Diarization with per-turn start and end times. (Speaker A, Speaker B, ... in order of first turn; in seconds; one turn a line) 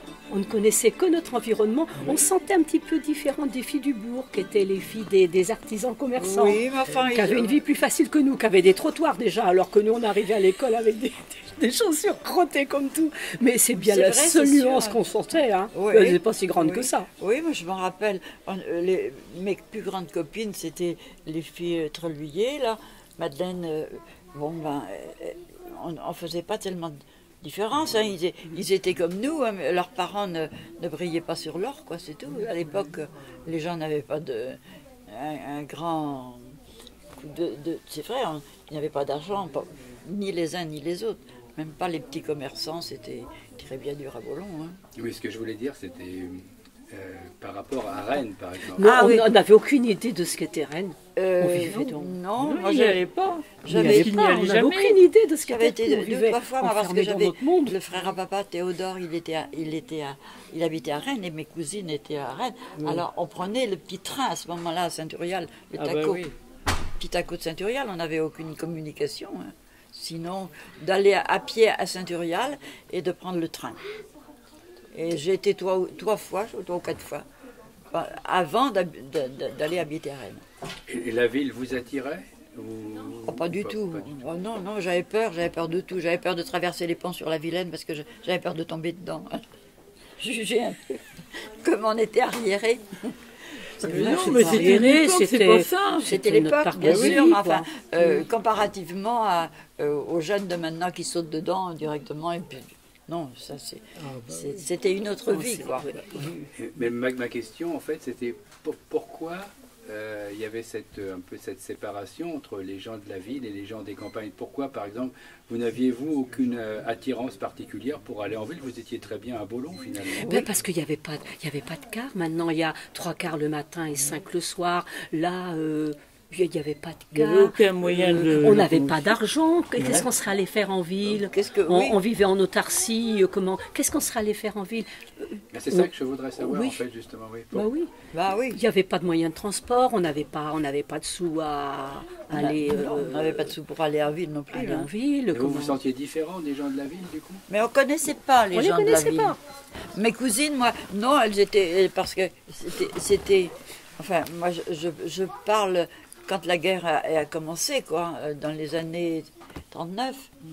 Speaker A: 0.3-6.6
Speaker B: 6.2-7.6
Speaker A: 7.1-17.1
Speaker B: 13.7-15.0
Speaker B: 15.7-36.5
Speaker B: 37.1-44.8
Speaker C: 45.0-49.2
Speaker A: 48.8-52.1
Speaker B: 48.8-49.2
Speaker B: 51.1-53.0
Speaker D: 52.4-55.0
Speaker B: 53.6-54.1
Speaker A: 53.7-57.8
Speaker B: 55.5-66.2
Speaker D: 62.8-63.0
Speaker D: 65.8-66.3
Speaker B: 67.0-73.8
Speaker B: 74.9-77.2
Speaker B: 77.9-80.4
Speaker C: 80.9-84.1
Speaker B: 83.2-89.4
Speaker B: 90.2-93.1
Speaker B: 93.8-94.8
Speaker D: 93.8-96.2
Speaker A: 93.9-98.2
Speaker B: 96.0-105.9
Speaker D: 96.8-97.2
Speaker D: 104.0-104.7
Speaker A: 105.3-106.5
Speaker C: 106.6-120.4
Speaker A: 120.2-136.8
Speaker D: 127.1-129.2
Speaker D: 129.8-130.1
Speaker B: 131.1-132.0
Speaker C: 135.5-137.7
Speaker A: 137.5-137.9
Speaker B: 138.1-138.6
Speaker A: 138.5-143.5
Speaker B: 142.3-144.9
Speaker A: 144.5-145.8
Speaker C: 145.3-147.4
Speaker B: 147.5-149.4
Speaker A: 148.5-149.4
Speaker B: 149.9-160.3